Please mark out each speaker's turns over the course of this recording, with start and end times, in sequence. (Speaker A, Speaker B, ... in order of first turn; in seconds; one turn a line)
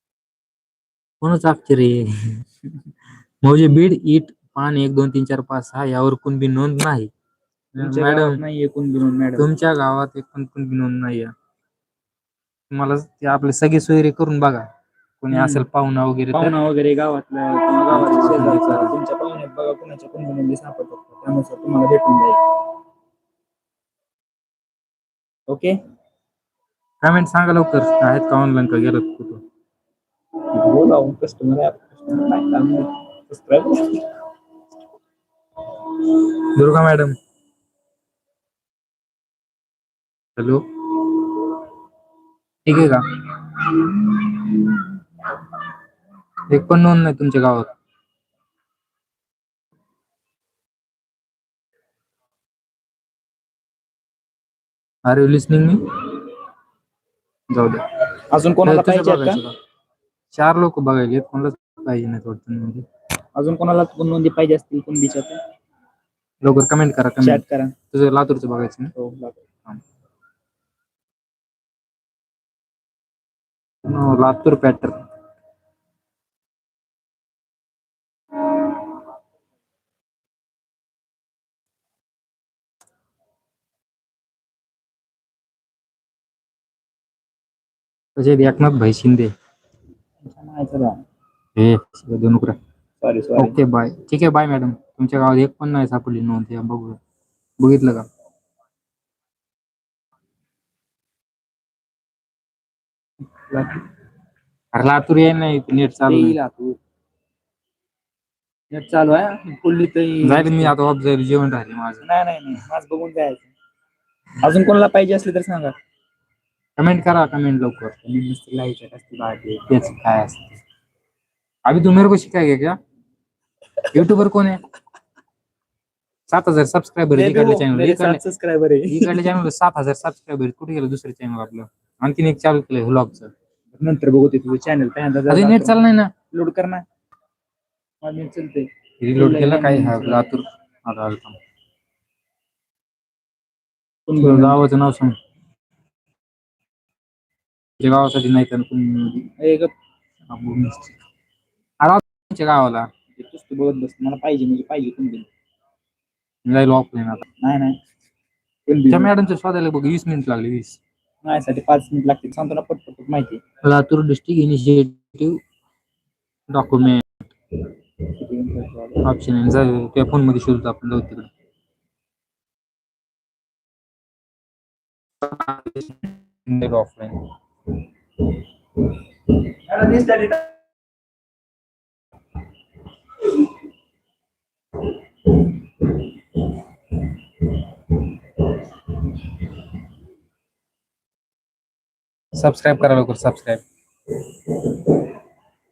Speaker A: 1.2-2.5
Speaker A: 3.4-7.1
Speaker A: 7.8-8.4
Speaker B: 7.8-9.5
Speaker A: 9.4-11.3
Speaker A: 12.7-14.6
Speaker A: 15.2-16.5
Speaker B: 15.3-15.6
Speaker B: 16.3-22.4
Speaker A: 17.9-18.9
Speaker B: 25.5-25.8
Speaker A: 27.0-29.4
Speaker B: 30.5-34.1
Speaker A: 36.0-37.1
Speaker A: 40.4-41.2
Speaker A: 42.6-43.5
Speaker A: 46.5-47.7
Speaker A: 55.0-56.2
Speaker A: 57.5-57.9
Speaker B: 58.3-59.4
Speaker A: 58.6-59.5
Speaker A: 60.3-62.9
Speaker B: 63.4-65.4
Speaker A: 66.4-68.9
Speaker B: 67.2-67.7
Speaker B: 68.9-69.5
Speaker A: 73.8-75.0
Speaker A: 88.2-89.3
Speaker B: 90.2-91.0
Speaker A: 91.6-92.6
Speaker B: 93.0-93.6
Speaker A: 93.4-97.0
Speaker A: 97.6-98.1
Speaker B: 103.4-103.8
Speaker A: 104.7-106.4
Speaker B: 106.0-106.8
Speaker B: 108.7-110.7
Speaker A: 110.2-112.0
Speaker B: 112.0-113.5
Speaker B: 114.4-115.7
Speaker A: 116.8-117.9
Speaker B: 118.0-119.8
Speaker A: 119.7-120.6
Speaker A: 121.7-122.8
Speaker A: 123.9-124.6
Speaker A: 126.3-128.2
Speaker B: 127.1-129.4
Speaker A: 128.9-133.3
Speaker B: 133.7-136.8
Speaker A: 135.3-136.1
Speaker B: 138.0-140.4
Speaker A: 139.0-141.4
Speaker B: 144.1-144.6
Speaker A: 144.2-145.1
Speaker A: 147.8-149.3
Speaker B: 149.4-149.7
Speaker A: 150.3-151.0
Speaker A: 151.8-152.9
Speaker B: 153.2-155.3
Speaker A: 156.4-157.2
Speaker B: 157.4-157.8
Speaker B: 158.7-159.1
Speaker A: 158.9-160.8
Speaker B: 161.2-163.4
Speaker A: 163.6-165.4
Speaker A: 166.5-167.3
Speaker B: 168.2-169.1
Speaker A: 169.0-171.3
Speaker A: 175.2-177.3
Speaker B: 179.7-180.4
Speaker A: 192.3-193.6